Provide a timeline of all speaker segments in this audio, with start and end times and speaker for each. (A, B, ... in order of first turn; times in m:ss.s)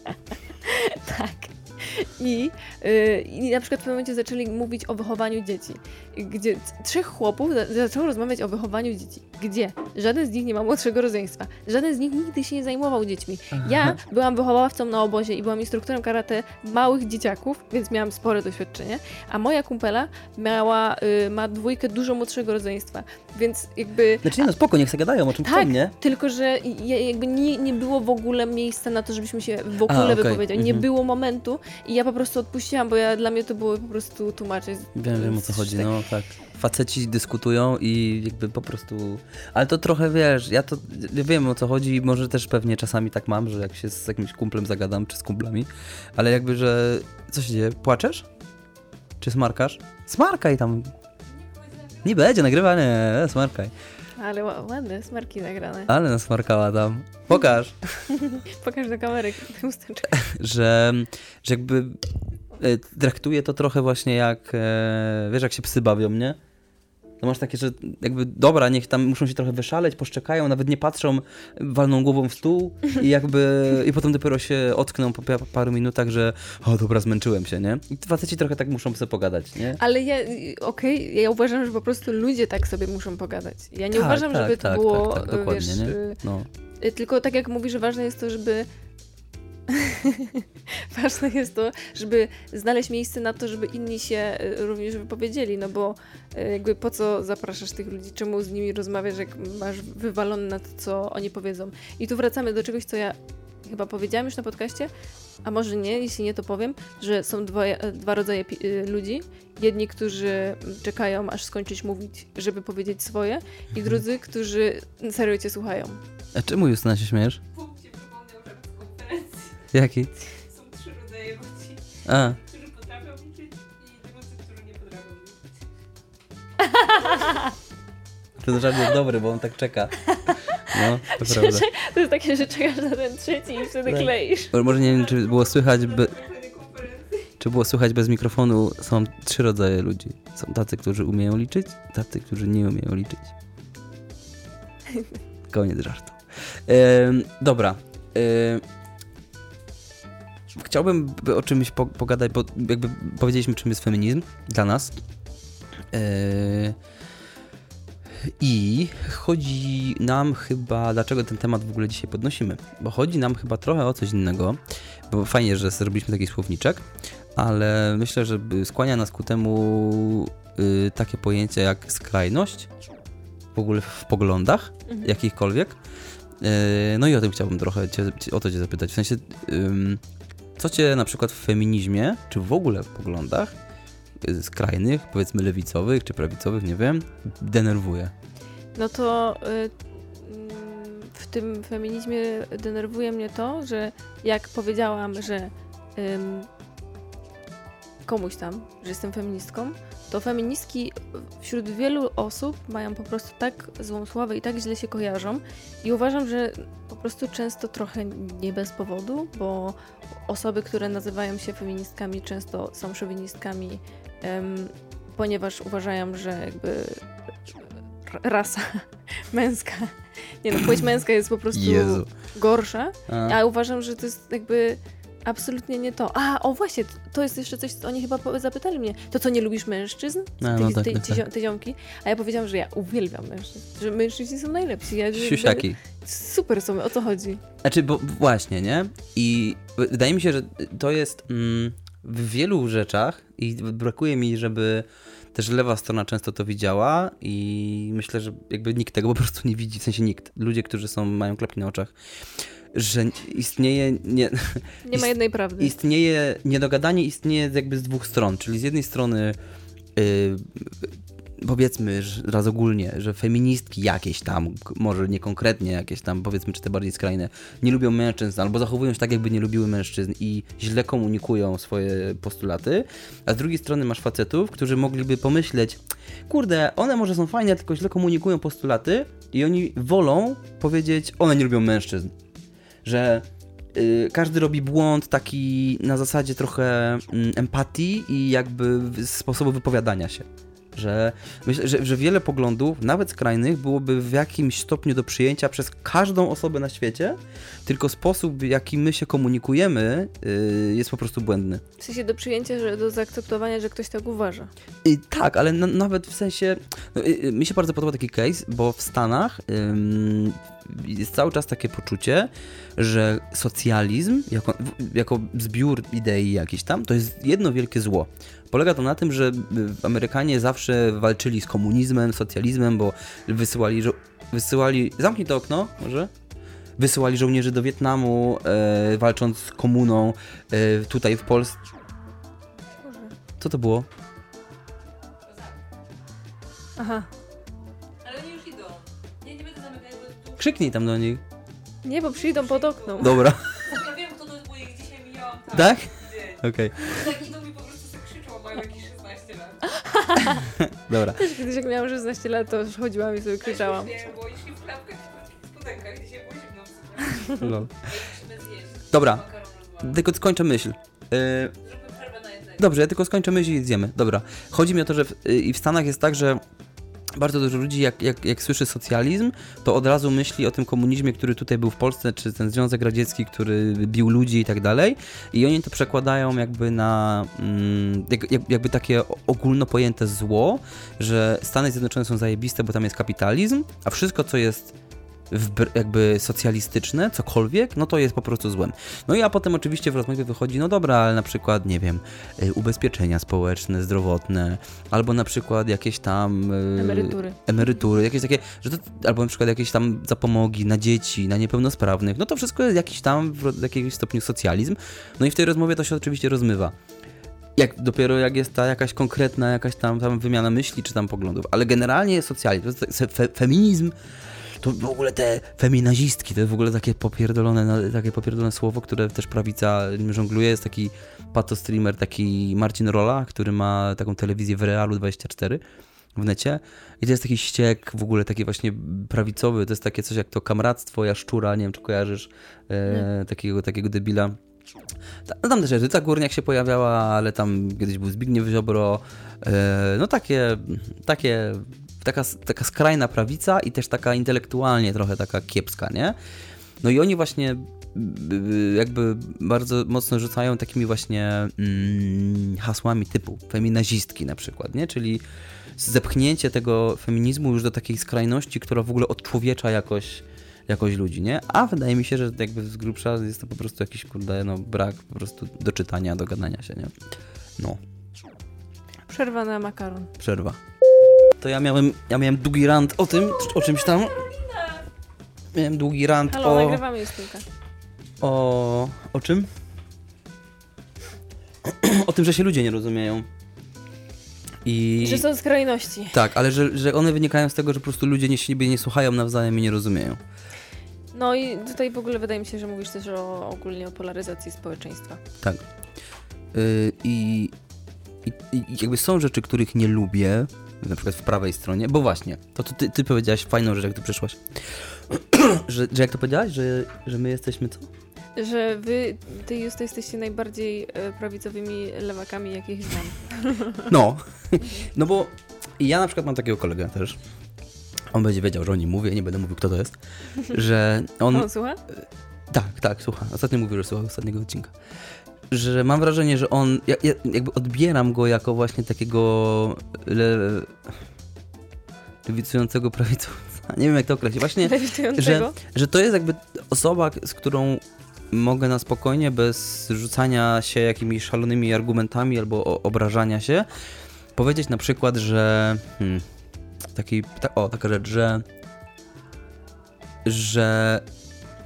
0:00.6-0:24.4 A
0:13.5-0:14.0 B
0:24.2-0:25.9 B
0:25.4-0:35.9 A
0:29.9-0:30.8 B
0:34.9-0:48.2 B
0:49.2-0:50.9 B
0:51.3-0:52.3 C
0:52.0-0:53.7 B
0:54.2-0:55.9 A
0:55.9-0:58.0 B
0:58.1-1:00.2 A
1:00.1-1:02.0 B
1:02.6-1:06.4 B
1:07.2-1:19.8 B
1:19.8-1:26.2 A
1:23.9-1:26.5 B
1:26.8-1:28.7 A
1:29.7-1:44.9 A
1:45.4-1:56.0 A
1:56.3-1:57.4 B
1:57.5-1:59.6 C
1:59.7-2:00.1 B
2:00.2-2:05.6 C
2:02.0-2:02.4 B
2:06.6-2:07.4 A
2:08.4-2:11.7 B
2:10.2-2:14.5 A
2:13.8-2:16.2 B
2:14.6-2:17.3 C
2:17.4-2:23.3 B
2:24.9-2:25.1 A
2:25.5-2:28.6 B
2:30.5-2:34.9 B
2:35.9-2:36.8 B
2:38.2-2:46.8 B
2:47.4-2:52.7 B
2:53.5-2:55.8 B
2:56.4-3:00.0 B
3:00.6-3:03.5 B
3:04.2-3:08.1 B
3:08.7-3:16.5 A
3:18.0-3:29.8 A
3:30.3-3:57.4 A
3:41.5-3:42.1 B
3:43.1-3:43.4 B
3:50.4-3:51.2 B
3:55.1-3:55.8 B
3:57.6-4:11.9 B
4:12.7-4:19.4 B
4:14.8-4:15.7 A
4:19.9-4:42.1 B
4:42.8-5:01.6 B
5:01.8-5:04.5 A
5:04.8-5:26.1 B
5:26.8-5:31.6 B
5:32.8-5:33.1 A
5:33.4-5:33.9 B
5:35.2-5:35.6 C
5:36.8-5:37.1 A
5:38.0-5:40.7 C
5:40.4-5:41.2 B
5:41.8-5:43.3 A
5:42.1-5:49.8 C
5:43.0-5:43.8 B
5:45.5-5:47.1 B
5:49.8-5:50.5 A
5:50.3-5:51.3 B
5:51.0-5:53.9 A
5:53.4-6:00.0 C
5:57.4-5:57.7 B
5:58.9-5:59.2 B
5:59.8-6:01.5 B
6:01.6-6:02.6 C
6:02.6-6:06.4 B
6:07.1-6:24.7 B
6:25.3-6:46.7 B
6:36.8-6:37.4 A
6:47.6-7:05.6 B
7:06.1-7:14.4 B
7:15.2-7:26.2 B
7:26.8-7:35.2 B
7:35.8-7:46.9 B
7:49.1-7:50.1 A
7:50.2-7:50.6 B
7:51.4-7:54.3 B
7:53.2-7:54.9 C
7:55.5-7:56.8 B
7:56.3-7:57.4 A
7:58.2-7:59.5 B
8:01.6-8:03.3 B
8:04.6-8:05.3 B
8:05.0-8:06.2 A
8:06.1-8:10.2 B
8:11.1-8:15.2 A
8:16.5-8:17.5 B
8:18.2-8:27.9 B
8:28.4-8:33.9 A
8:33.9-8:37.2 B
8:38.1-8:44.7 B
8:41.3-8:41.8 A
8:45.5-8:50.9 B
8:52.2-9:03.7 B
8:54.6-8:55.5 A
9:04.3-9:06.2 B
9:06.9-9:08.4 B
9:10.2-9:11.0 B